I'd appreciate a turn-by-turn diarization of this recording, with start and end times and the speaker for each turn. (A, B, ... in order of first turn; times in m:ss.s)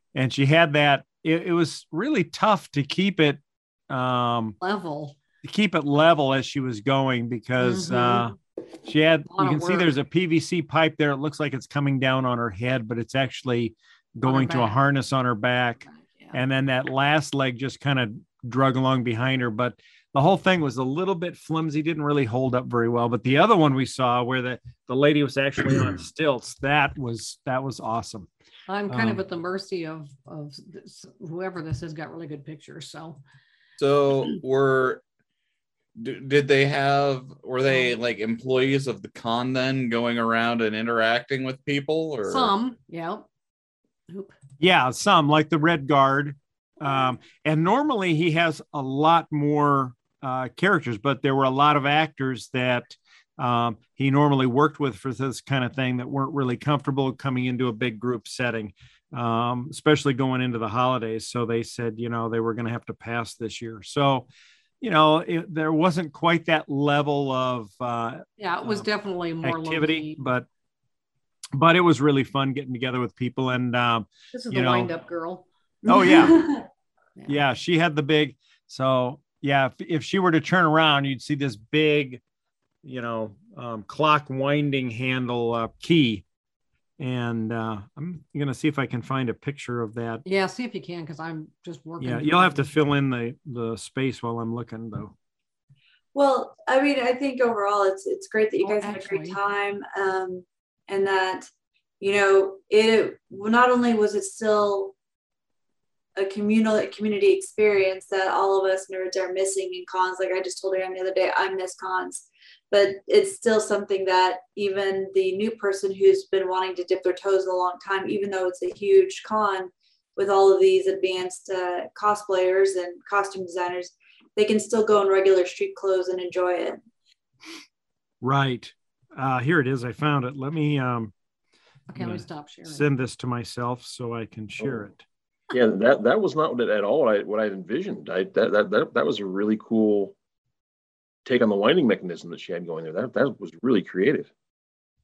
0:00.1-0:04.6 A
0:04.6-0:05.2 B
0:05.4-0:15.8 A
0:07.6-0:08.3 B
0:09.3-0:09.9 B
0:14.3-0:14.8 B
0:15.9-0:16.4 B
0:16.3-0:28.3 A
0:28.7-0:33.2 B
0:28.9-0:29.2 A
0:33.8-0:35.0 C
0:35.9-0:42.5 C
0:42.2-0:43.3 B
0:44.1-0:44.4 B
0:44.6-1:04.3 A
1:04.8-1:08.9 A
1:08.4-1:10.2 B
1:09.4-1:10.5 A
1:11.6-1:14.9 A
1:14.3-1:16.3 B
1:15.8-1:16.5 A
1:16.1-1:16.6 D
1:17.2-1:17.4 B
1:17.3-1:22.2 A
1:22.8-1:26.2 A
1:27.0-1:30.2 A
1:30.2-1:32.7 B
1:32.0-1:35.1 A
1:36.1-1:41.5 D
1:38.6-1:39.4 B
1:42.0-1:44.9 D
1:46.2-2:06.8 D
2:08.2-2:11.1 A
2:11.9-2:12.8 B
2:12.0-2:15.0 A
2:15.5-2:20.1 E
2:21.2-2:24.3 E